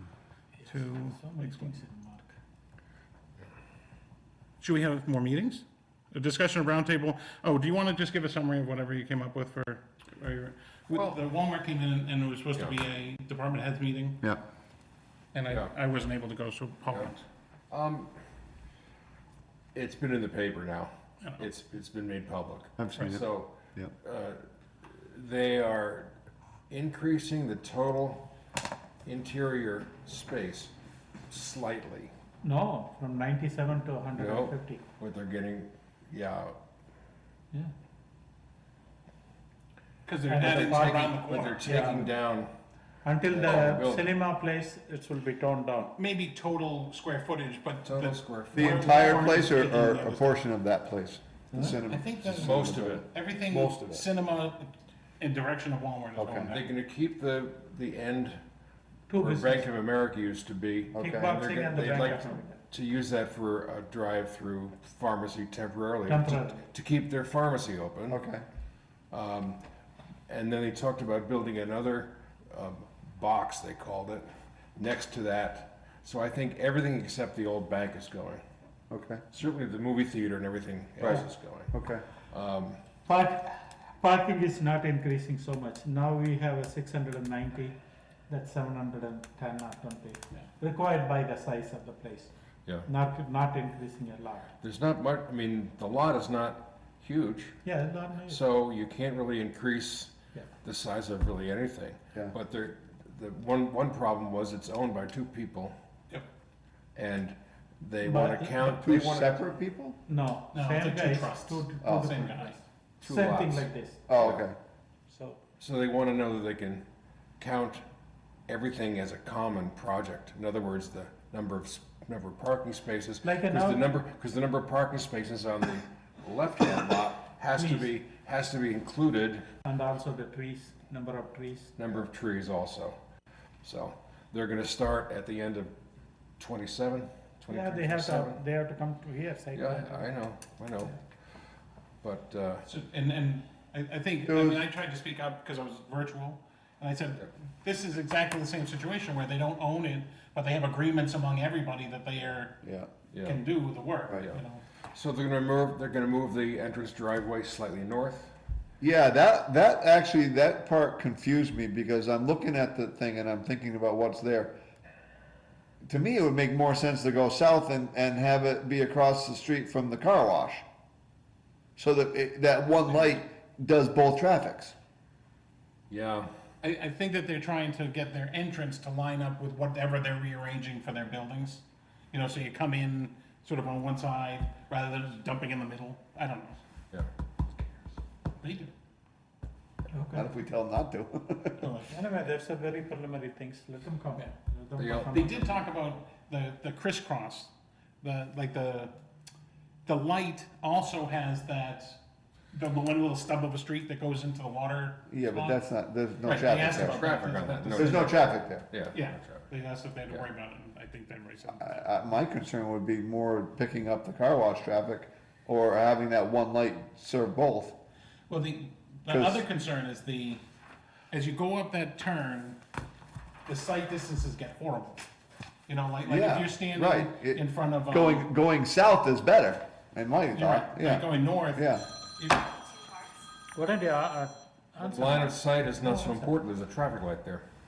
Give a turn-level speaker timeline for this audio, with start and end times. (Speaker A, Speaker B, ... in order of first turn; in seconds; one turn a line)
Speaker A: 0.6-2.3
Speaker B: 0.7-1.8
Speaker B: 4.6-14.2
Speaker C: 10.9-11.2
Speaker B: 15.3-17.2
Speaker C: 15.5-15.7
Speaker C: 17.7-18.1
Speaker C: 19.7-26.1
Speaker D: 22.8-23.2
Speaker C: 26.7-28.3
Speaker C: 29.0-30.7
Speaker C: 31.3-32.1
Speaker A: 32.4-34.8
Speaker C: 34.1-36.6
Speaker B: 40.0-41.9
Speaker A: 40.3-42.1
Speaker C: 40.4-42.5
Speaker A: 43.0-46.0
Speaker C: 43.2-44.2
Speaker B: 46.0-50.4
Speaker C: 47.8-49.5
Speaker D: 48.5-54.0
Speaker B: 51.5-56.7
Speaker C: 52.4-53.1
Speaker D: 56.2-56.5
Speaker C: 56.5-58.4
Speaker A: 59.1-59.6
Speaker C: 59.1-68.2
Speaker D: 60.9-61.4
Speaker A: 61.0-62.6
Speaker A: 66.1-66.6
Speaker D: 68.1-68.4
Speaker C: 69.1-69.6
Speaker C: 70.3-78.4
Speaker D: 78.9-79.2
Speaker C: 79.3-81.7
Speaker D: 81.0-82.0
Speaker C: 82.3-82.8
Speaker A: 83.0-87.8
Speaker A: 88.3-92.3
Speaker A: 92.8-94.5
Speaker C: 94.6-97.6
Speaker A: 97.6-98.4
Speaker C: 98.3-105.8
Speaker C: 107.0-109.4
Speaker A: 108.0-108.7
Speaker D: 108.6-110.0
Speaker A: 110.1-114.0
Speaker B: 110.5-112.6
Speaker D: 111.8-112.1
Speaker C: 113.0-114.5
Speaker D: 114.1-114.6
Speaker A: 115.1-115.4
Speaker C: 115.6-116.8
Speaker C: 117.4-117.8
Speaker C: 118.5-129.4
Speaker A: 123.2-124.0
Speaker A: 129.7-131.8
Speaker C: 131.8-133.0
Speaker C: 133.6-135.7
Speaker C: 136.4-138.4
Speaker A: 137.5-140.1
Speaker C: 139.5-141.0
Speaker C: 142.0-142.7
Speaker B: 142.7-152.6
Speaker D: 144.2-144.6
Speaker D: 152.6-152.9
Speaker C: 153.1-153.4
Speaker B: 153.2-154.6
Speaker C: 154.9-158.3
Speaker D: 158.8-164.6
Speaker D: 165.8-170.7
Speaker D: 171.8-174.8
Speaker C: 175.9-176.3
Speaker B: 176.6-186.6
Speaker B: 188.4-188.7
Speaker A: 189.9-190.3
Speaker D: 190.1-191.6
Speaker B: 191.6-192.2
Speaker A: 191.9-195.7
Speaker C: 194.8-195.4
Speaker B: 195.0-198.9
Speaker B: 199.8-202.0
Speaker B: 202.5-205.7
Speaker D: 205.1-207.0
Speaker B: 206.2-208.2
Speaker C: 206.6-209.5
Speaker D: 207.7-208.7
Speaker B: 208.9-211.8
Speaker D: 211.6-217.8
Speaker B: 218.3-220.4
Speaker D: 219.1-219.4
Speaker B: 221.1-222.6
Speaker B: 223.5-225.1
Speaker B: 225.7-228.3
Speaker D: 226.0-231.9
Speaker B: 230.3-232.6
Speaker A: 233.5-236.3
Speaker C: 234.8-237.4